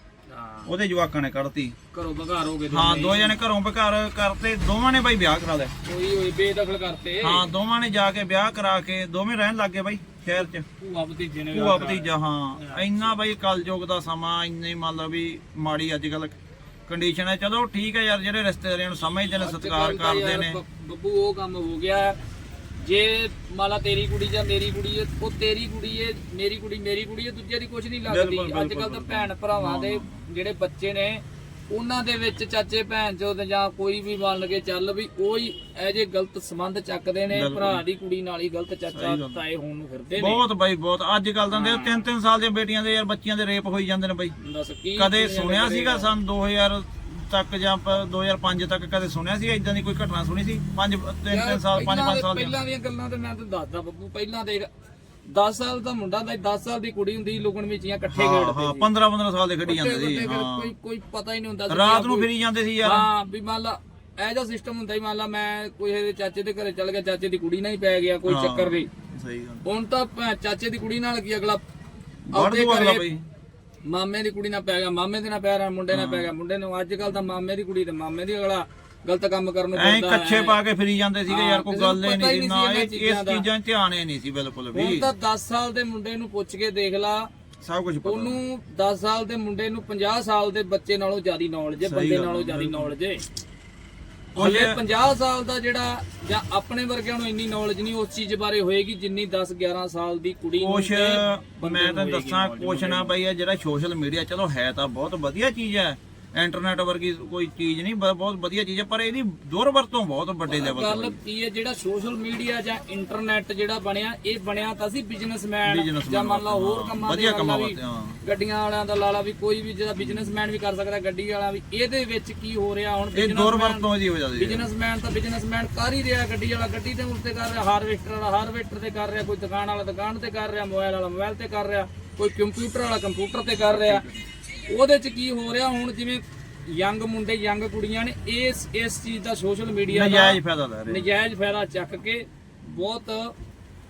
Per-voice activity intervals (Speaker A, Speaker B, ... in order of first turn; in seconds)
Speaker A: 0.3-0.7, 1.9-3.4, 5.8-7.5, 10.8-13.2, 19.4-22.2, 22.8-40.4, 41.5-42.1, 44.4-46.1, 51.3-54.7, 55.3-58.9, 59.6-62.3, 62.8-68.9, 69.6-71.7, 72.3-73.1, 73.8-80.6, 81.3-83.5, 84.7-87.3, 88.0-93.2, 94.3-103.1, 110.5-134.1, 134.7-143.3
Speaker B: 0.7-1.8, 2.7-5.7, 7.2-10.7, 11.5-16.4, 16.9-20.6, 28.1-30.2, 37.3-37.8, 38.9-39.4, 40.1-44.4, 45.0-52.6, 58.1-60.7, 61.7-63.1, 68.3-69.6, 72.3-73.2, 75.9-76.3, 79.8-85.1, 87.6-88.4, 91.8-92.9, 94.3-94.8, 100.5-111.2, 115.7-118.2, 120.0-120.3, 123.1-124.7, 133.8-134.2, 139.9-141.1